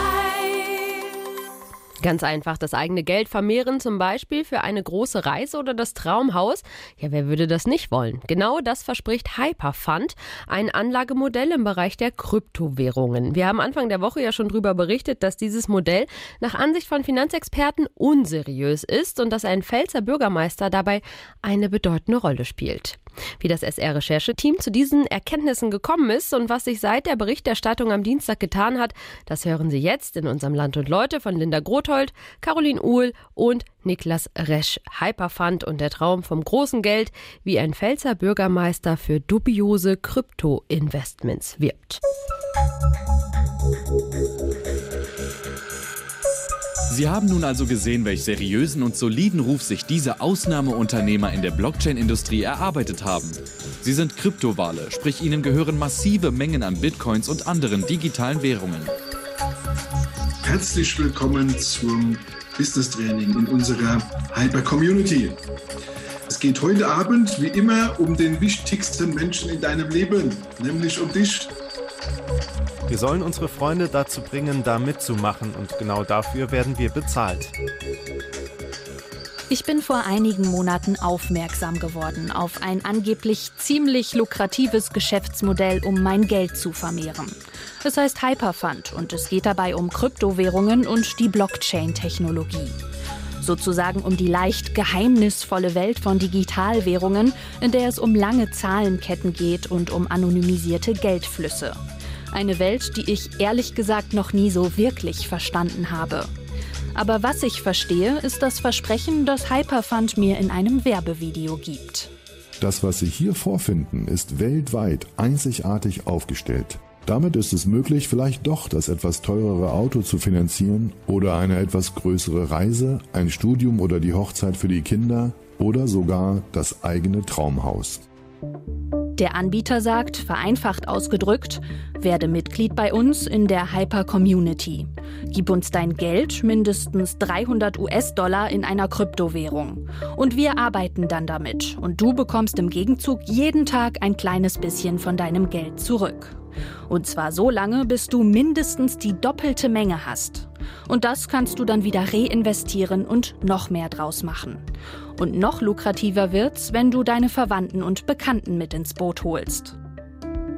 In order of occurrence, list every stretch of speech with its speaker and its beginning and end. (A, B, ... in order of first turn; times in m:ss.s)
0:02.0-0:42.0 A
0:46.9-0:58.9 B
1:00.4-1:05.4 C
1:06.3-1:11.5 C
1:12.9-1:17.5 D
1:19.5-1:32.8 E
1:33.4-1:41.8 E
1:42.3-1:46.3 E
1:46.9-1:52.1 E
1:52.6-2:08.0 F
2:09.2-2:26.4 E
2:26.9-2:34.6 E
2:35.2-2:39.8 E